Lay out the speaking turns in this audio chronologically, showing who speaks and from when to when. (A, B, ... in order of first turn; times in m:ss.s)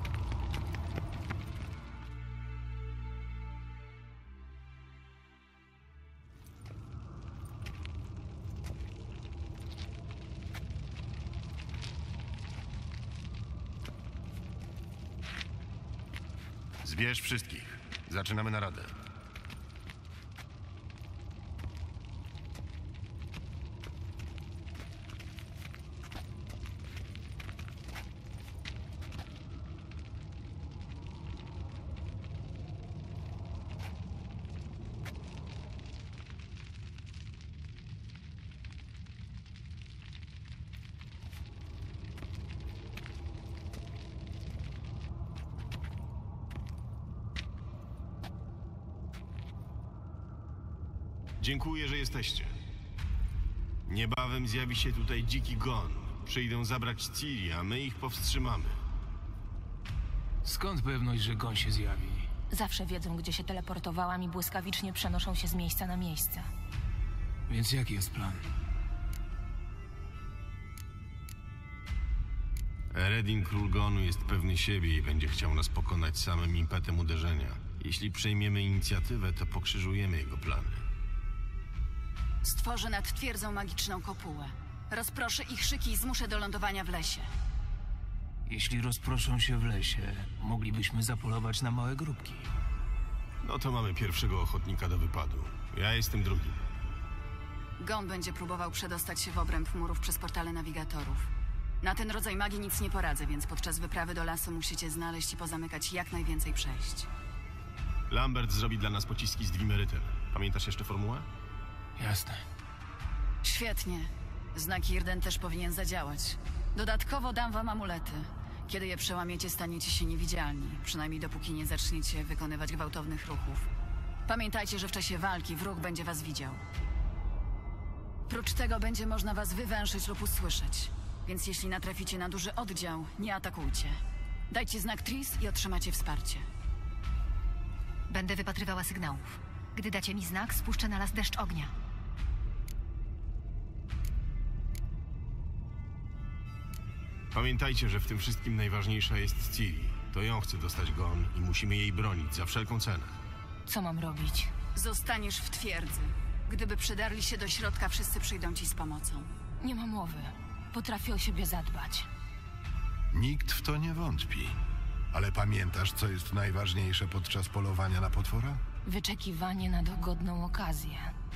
0:16.8-0:18.9 A
0:51.4-0:52.6 A
0:53.9-0:58.8 A
1:00.4-1:02.3 B
1:02.5-1:06.5 C
1:07.5-1:08.4 B
1:12.9-1:20.8 A
1:22.4-1:27.3 D
1:28.5-1:32.5 B
1:33.4-1:36.6 A
1:37.8-1:41.3 D
1:41.8-1:47.1 D
1:48.1-1:51.3 A
1:52.0-1:52.4 B
1:53.4-2:03.7 D
2:04.3-2:06.6 D
2:08.3-2:14.0 D
2:14.5-2:16.4 D
2:18.1-2:21.7 E
2:27.3-2:33.2 A
2:33.7-2:34.5 C
2:34.8-2:39.3 D
2:39.6-2:42.1 C
2:43.1-2:44.5 F
2:45.1-2:48.6 F
2:48.8-2:51.1 C